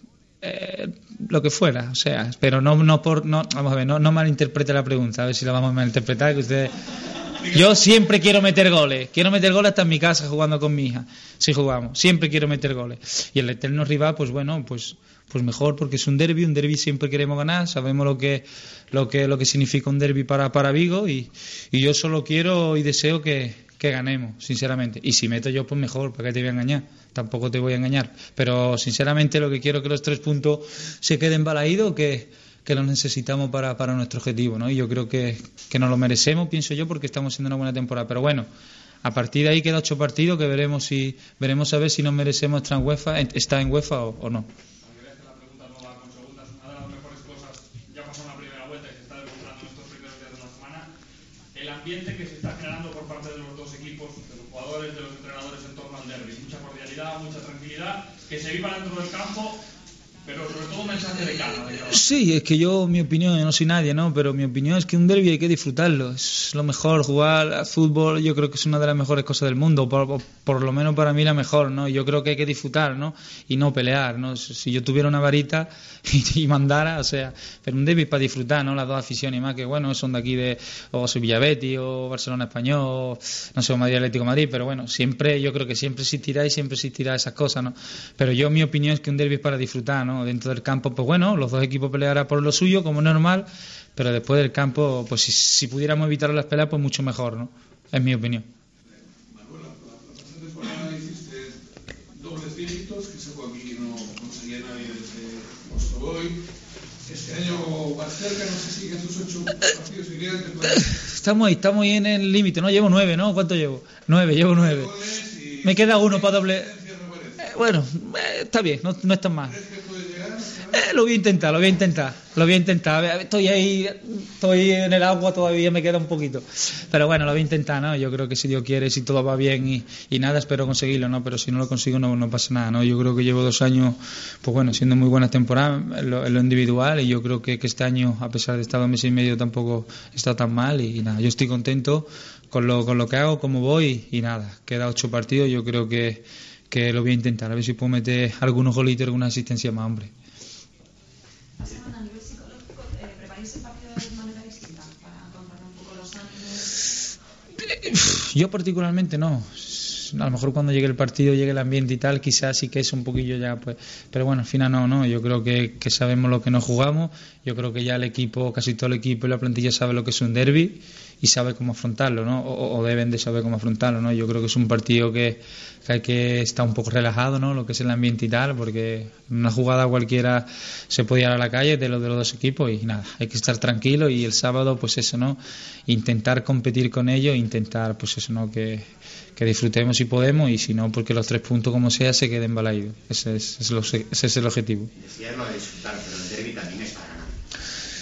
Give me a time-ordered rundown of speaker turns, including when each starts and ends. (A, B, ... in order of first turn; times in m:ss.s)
0:00.4-0:06.7 A
0:07.4-0:07.8 B
0:07.5-0:38.5 A
0:39.0-0:44.5 A
0:44.8-0:50.9 C
0:51.5-0:59.6 C
1:00.2-1:02.0 C
1:01.9-1:38.5 A
1:39.2-1:41.6 B
1:42.1-1:46.4 B
1:47.0-1:50.8 B
1:51.0-1:54.9 A
1:54.6-1:57.5 B
1:55.6-1:56.7 A
1:57.4-1:59.6 A
1:59.5-2:00.8 B
2:00.7-2:30.1 A
2:31.6-2:36.9 D
2:37.8-3:14.9 A
3:15.0-3:17.3 E